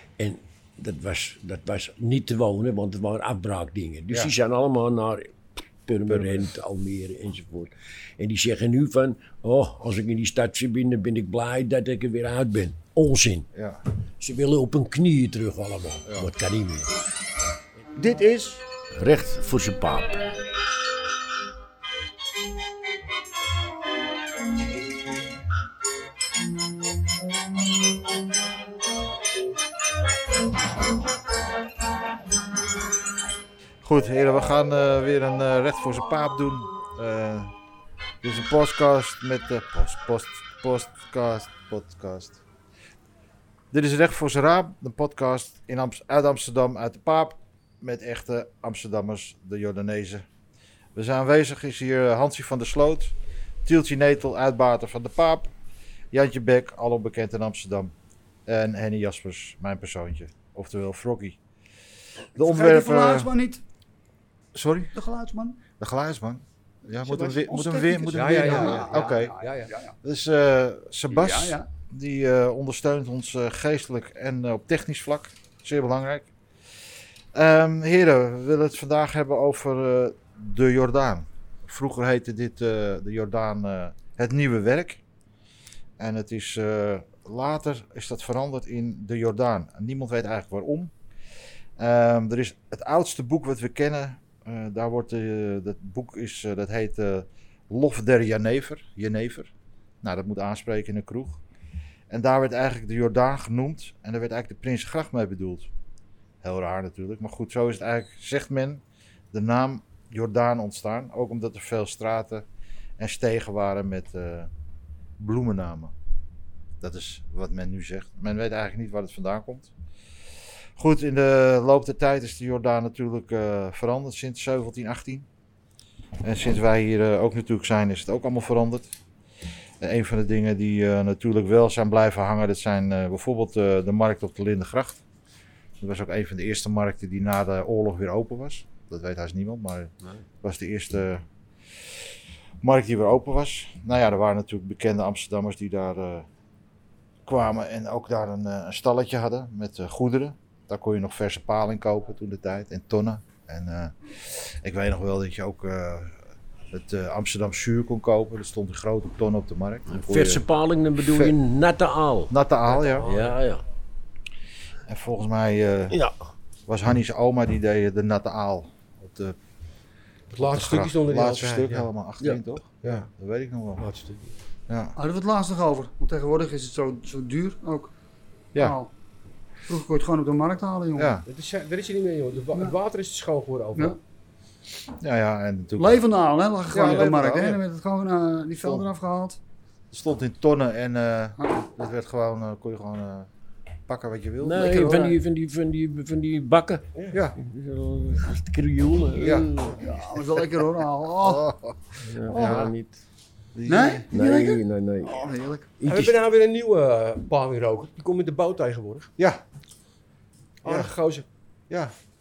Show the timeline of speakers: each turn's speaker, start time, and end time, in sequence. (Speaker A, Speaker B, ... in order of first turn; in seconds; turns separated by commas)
Speaker A: 0.2-13.5, Speaker B: 6.1-6.5, Speaker B: 13.5-13.8, Speaker A: 14.2-16.9, Speaker C: 17.9-18.6, Speaker A: 18.9-20.2, Speaker B: 33.8-37.5, Speaker B: 38.2-42.4, Speaker B: 43.7-50.2, Speaker B: 50.9-53.1, Speaker B: 53.6-55.5, Speaker B: 56.1-57.9, Speaker B: 58.5-61.4, Speaker B: 62.3-63.3, Speaker C: 62.4-63.6, Speaker B: 64.5-64.9, Speaker C: 64.9-65.6, Speaker B: 65.8-69.3, Speaker C: 67.0-69.9, Speaker D: 68.1-69.7, Speaker B: 70.0-76.3, Speaker C: 71.1-71.7, Speaker B: 77.3-85.0, Speaker B: 86.0-90.9, Speaker B: 91.8-101.4, Speaker B: 102.1-105.7, Speaker B: 106.4-112.5, Speaker B: 113.0-114.5, Speaker B: 115.2-115.9, Speaker B: 116.8-119.7, Speaker B: 120.8-125.2, Speaker B: 126.2-128.9, Speaker B: 129.8-135.0, Speaker B: 135.8-141.2, Speaker B: 142.6-146.3, Speaker B: 147.2-156.2, Speaker B: 156.7-160.4, Speaker A: 159.9-162.3, Speaker B: 161.0-161.4, Speaker B: 162.3-163.1, Speaker D: 163.0-163.3, Speaker A: 163.0-163.6, Speaker B: 164.9-166.0, Speaker B: 166.7-169.3, Speaker D: 170.3-171.9, Speaker B: 170.3-173.8, Speaker D: 173.8-174.3, Speaker B: 174.7-174.9, Speaker C: 174.9-177.9, Speaker C: 178.6-178.9, Speaker C: 179.7-181.1, Speaker B: 180.9-181.2, Speaker D: 181.2-184.0, Speaker B: 185.0-185.9, Speaker C: 185.8-189.4, Speaker B: 186.7-187.6, Speaker B: 189.9-193.3, Speaker C: 191.4-191.6, Speaker B: 193.9-194.9, Speaker A: 194.4-200.0, Speaker D: 194.6-195.2, Speaker B: 199.2-199.5, Speaker C: 199.2-201.4, Speaker B: 201.2-202.7, Speaker A: 202.0-203.0, Speaker C: 202.3-202.7, Speaker B: 203.5-204.1, Speaker C: 203.7-205.7, Speaker A: 204.1-205.2, Speaker D: 205.8-209.1, Speaker A: 205.8-206.1, Speaker D: 210.6-211.2, Speaker B: 210.6-210.9